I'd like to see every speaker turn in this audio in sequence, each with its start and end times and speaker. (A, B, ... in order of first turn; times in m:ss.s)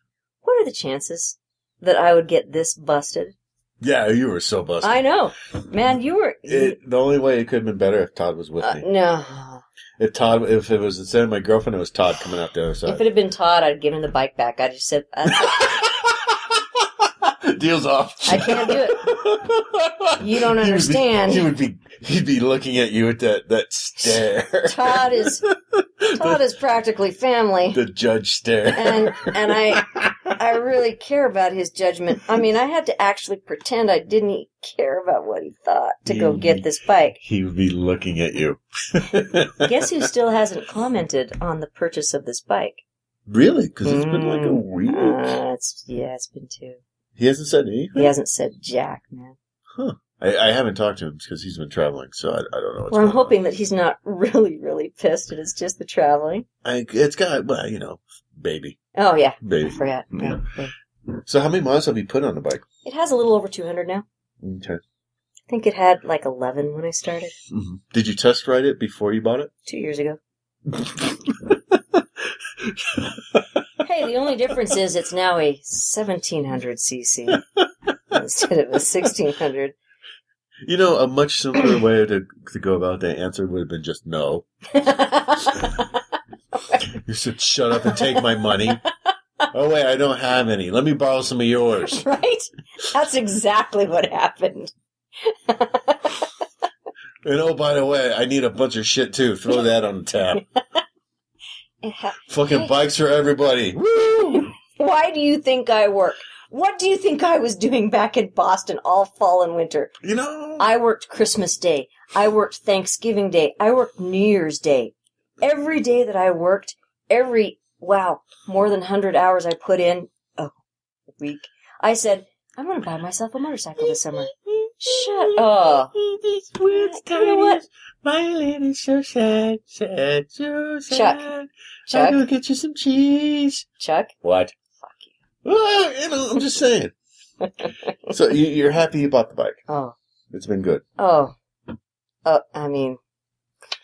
0:00.4-0:03.4 A
0:03.8-0:05.0 B
0:04.8-0:06.8 A
0:06.5-0:08.9 B
0:08.6-0:09.6 A
0:10.0-0:13.0 B
0:12.9-0:15.9 A
0:15.3-0:26.4 B
0:18.3-0:19.0 A
0:20.2-0:21.5 A
0:24.6-0:25.4 A
0:26.1-0:27.8 A
0:27.7-0:30.4 B
0:28.7-0:37.2 A
0:36.1-0:36.7 B
0:37.2-0:39.9 B
0:39.6-0:42.8 A
0:43.3-0:45.2 B
0:43.8-0:46.8 A
0:47.2-0:48.1 B
0:48.0-0:49.4 A
0:49.8-0:53.4 B
0:52.9-0:56.5 A
0:56.6-0:58.8 B
0:59.0-1:00.7 A
0:59.4-1:00.4 B
1:01.2-1:02.6 B
1:02.8-1:04.0 A
1:04.4-1:04.8 B
1:05.5-1:07.4 A
1:07.5-1:09.5 B
1:09.7-1:10.2 A
1:10.7-1:12.0 B
1:12.6-1:13.5 B
1:13.8-1:17.4 A
1:18.1-1:19.8 A
1:20.6-1:24.5 B
1:24.7-1:25.9 A
1:26.6-1:26.9 A
1:26.9-1:28.8 B
1:27.8-1:28.4 A
1:29.5-1:32.0 B
1:31.8-1:36.3 A
1:37.2-1:40.4 B
1:41.8-1:42.8 A
1:42.3-1:44.5 B
1:44.2-1:49.9 A
1:50.0-1:50.7 B
1:50.6-2:00.5 A
2:01.2-2:05.9 A
2:03.8-2:13.7 B
2:06.7-2:07.6 A
2:10.9-2:11.3 A
2:11.9-2:12.2 A
2:13.8-2:14.1 A
2:14.2-2:14.6 B
2:14.8-2:15.1 A
2:15.4-2:16.9 B
2:17.4-2:17.7 A
2:18.1-2:19.6 B
2:19.7-2:20.0 A
2:20.3-2:20.9 B
2:21.0-2:21.3 A
2:22.2-2:23.0 A